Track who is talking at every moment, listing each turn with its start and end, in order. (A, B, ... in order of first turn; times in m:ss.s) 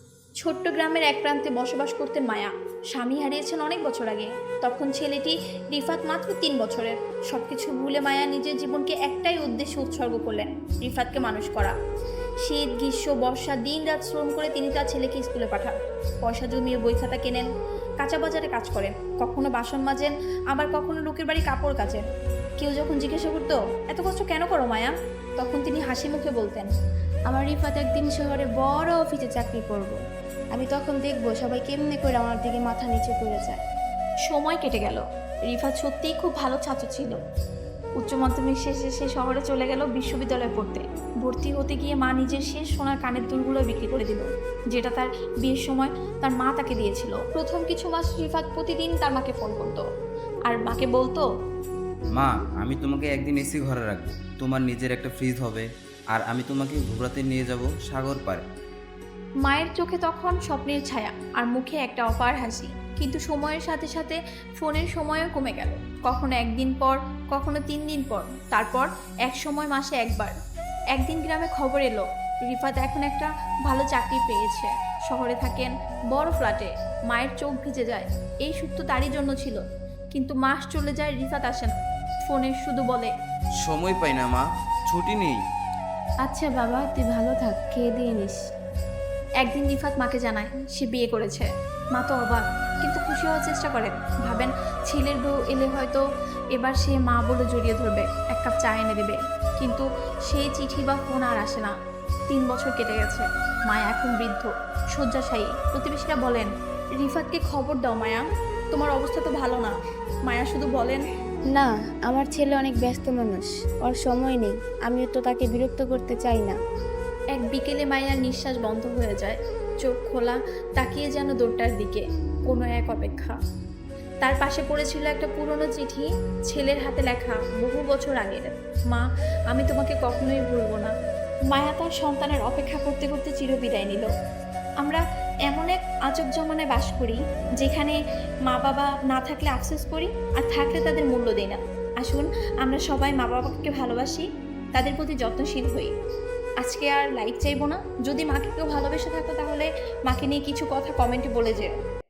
0:00.4-0:11.7 A
0:12.4-0:17.5 A
0:18.0-0:22.0 A
0:22.6-0:26.7 A
0:27.3-0:30.0 B
0:30.5-0:33.6 B
0:34.3-0:37.2 A
0:38.0-0:49.8 A
0:50.5-0:51.2 A
0:52.1-0:58.4 C
0:59.4-1:10.3 A
1:10.9-1:19.6 A
1:20.1-1:21.7 A
1:22.2-1:23.1 A
1:23.6-1:25.4 C
1:26.2-1:28.4 B
1:29.4-1:41.7 A
1:42.3-1:49.7 A
1:50.2-1:51.0 A
1:51.5-1:56.5 B
1:57.3-2:03.3 A
2:04.2-2:10.9 A
2:11.5-2:14.1 A
2:14.8-2:24.2 A
2:24.7-2:25.9 A
2:26.6-2:31.7 A